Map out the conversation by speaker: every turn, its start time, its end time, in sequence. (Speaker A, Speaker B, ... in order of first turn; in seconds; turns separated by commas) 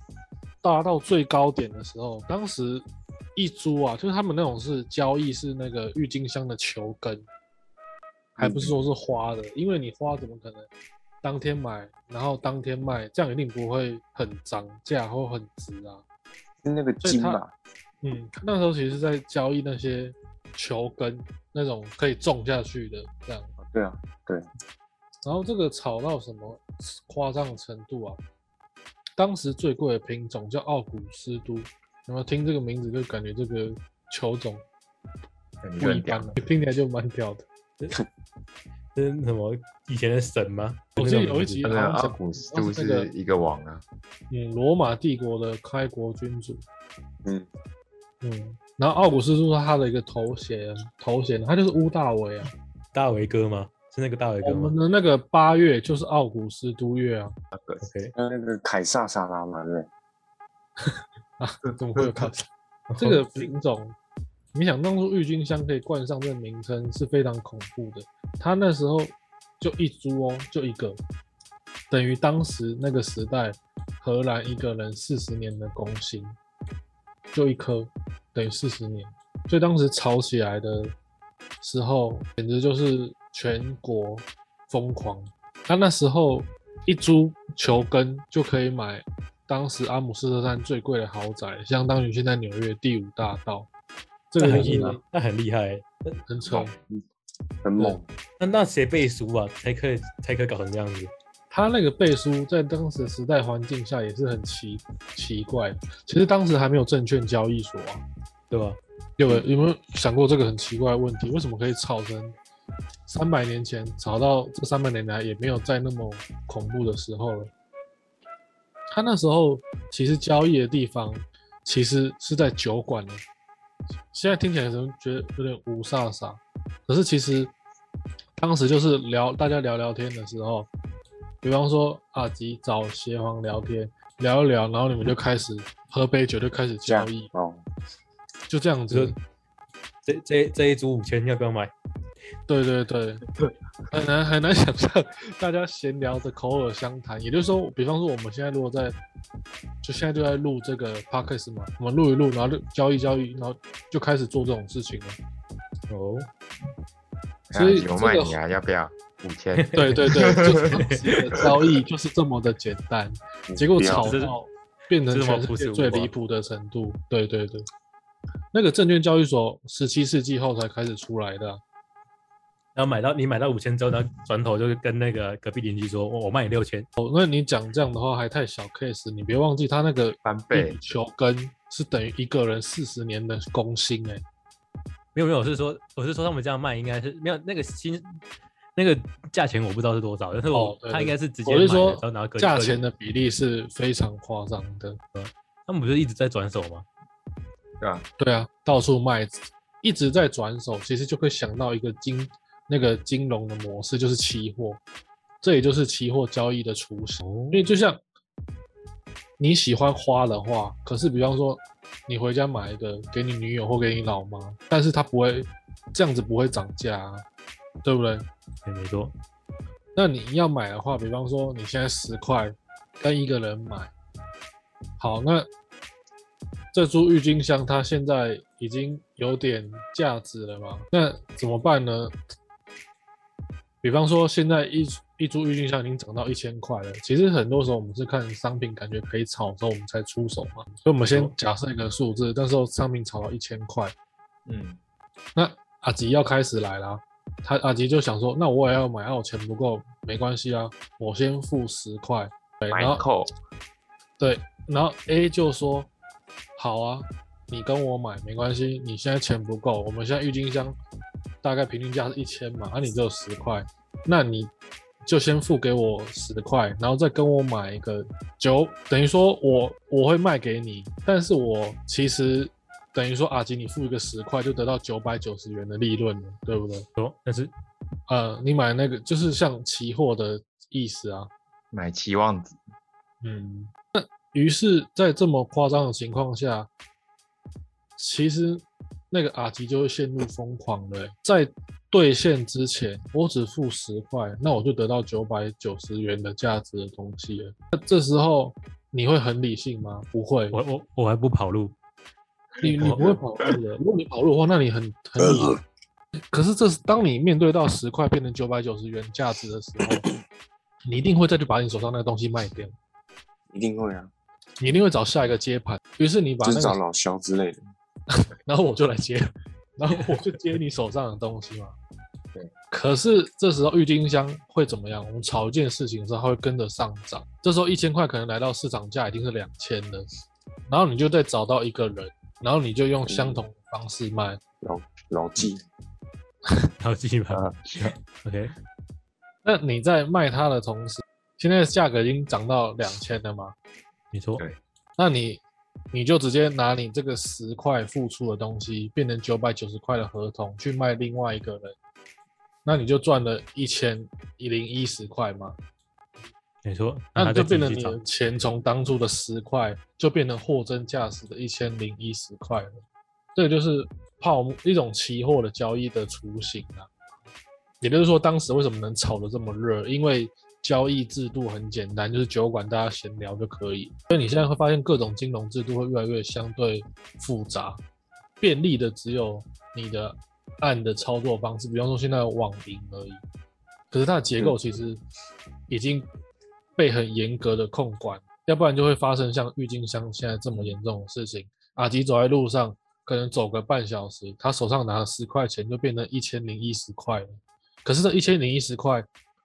Speaker A: 0.6-7.3, Speaker A: 8.4-10.7, Speaker B: 8.4-8.7, Speaker A: 11.2-16.0, Speaker B: 16.6-17.5, Speaker A: 17.0-17.4, Speaker A: 18.0-23.5, Speaker B: 23.6-24.4, Speaker A: 25.2-28.2, Speaker A: 29.2-34.6, Speaker C: 35.6-36.4, Speaker A: 35.8-37.5, Speaker D: 38.9-41.6, Speaker A: 41.0-43.1, Speaker C: 41.6-43.8, Speaker A: 44.3-46.6, Speaker A: 48.2-52.5, Speaker D: 52.9-54.7, Speaker A: 54.4-57.3, Speaker C: 57.5-57.8, Speaker D: 57.8-58.1, Speaker B: 58.2-59.9, Speaker A: 60.8-64.0, Speaker D: 62.9-63.5, Speaker A: 64.5-71.0, Speaker A: 71.9-76.4, Speaker A: 77.3-80.9, Speaker A: 81.6-93.7, Speaker A: 94.3-95.0, Speaker D: 94.4-96.2, Speaker A: 96.3-96.7, Speaker B: 96.5-97.0, Speaker B: 97.6-98.0, Speaker D: 98.4-101.1, Speaker A: 101.5-108.0, Speaker D: 108.5-108.8, Speaker A: 109.2-112.3, Speaker A: 113.1-117.5, Speaker A: 118.9-123.2, Speaker A: 124.1-127.5, Speaker A: 128.4-130.7, Speaker A: 131.4-137.3, Speaker B: 136.8-137.6, Speaker A: 138.5-139.1, Speaker D: 138.9-139.2, Speaker D: 140.0-141.7, Speaker A: 142.5-143.2, Speaker A: 143.9-149.0, Speaker A: 149.8-155.2, Speaker D: 155.9-156.3, Speaker C: 157.5-160.8, Speaker A: 157.5-158.4, Speaker D: 159.6-161.4, Speaker A: 159.8-167.7, Speaker B: 163.5-164.1, Speaker D: 164.0-164.3, Speaker D: 165.1-166.1, Speaker A: 168.5-171.6, Speaker D: 172.7-176.9, Speaker A: 177.0-184.2, Speaker C: 180.2-180.9, Speaker D: 185.1-188.2, Speaker D: 188.8-192.8, Speaker A: 190.5-195.0, Speaker D: 195.1-196.8, Speaker C: 197.8-198.1, Speaker A: 198.2-204.8, Speaker A: 205.4-208.0, Speaker D: 207.2-207.7, Speaker A: 209.4-217.2, Speaker A: 217.8-218.2, Speaker D: 218.6-219.1, Speaker A: 219.9-223.9, Speaker A: 225.0-225.5, Speaker A: 226.7-232.1, Speaker A: 233.8-243.9, Speaker C: 244.4-244.8, Speaker A: 245.3-253.0, Speaker C: 252.7-253.3, Speaker A: 254.2-255.9, Speaker A: 256.6-260.8, Speaker A: 261.4-264.5, Speaker A: 265.0-276.9, Speaker D: 277.0-277.5, Speaker A: 278.1-281.3, Speaker C: 281.7-282.6, Speaker A: 283.2-286.7, Speaker A: 288.0-300.6, Speaker D: 300.5-301.7, Speaker A: 302.6-305.6, Speaker D: 302.8-303.1, Speaker B: 305.2-305.6, Speaker A: 306.3-310.0, Speaker A: 310.9-312.7, Speaker B: 313.5-314.1, Speaker A: 314.6-316.8, Speaker B: 316.4-317.6, Speaker A: 318.1-321.8, Speaker A: 322.7-330.1, Speaker A: 330.7-334.4, Speaker B: 333.1-333.4, Speaker B: 334.6-335.6, Speaker D: 336.8-338.5, Speaker C: 337.3-337.9, Speaker A: 339.4-343.5, Speaker D: 344.1-344.4, Speaker A: 345.0-345.4, Speaker A: 345.9-351.8, Speaker A: 352.6-355.6, Speaker D: 356.6-358.0, Speaker A: 357.2-362.8, Speaker A: 363.3-366.9, Speaker A: 367.8-377.8, Speaker A: 378.4-383.2, Speaker A: 383.9-385.0, Speaker A: 385.7-386.1, Speaker A: 386.8-399.1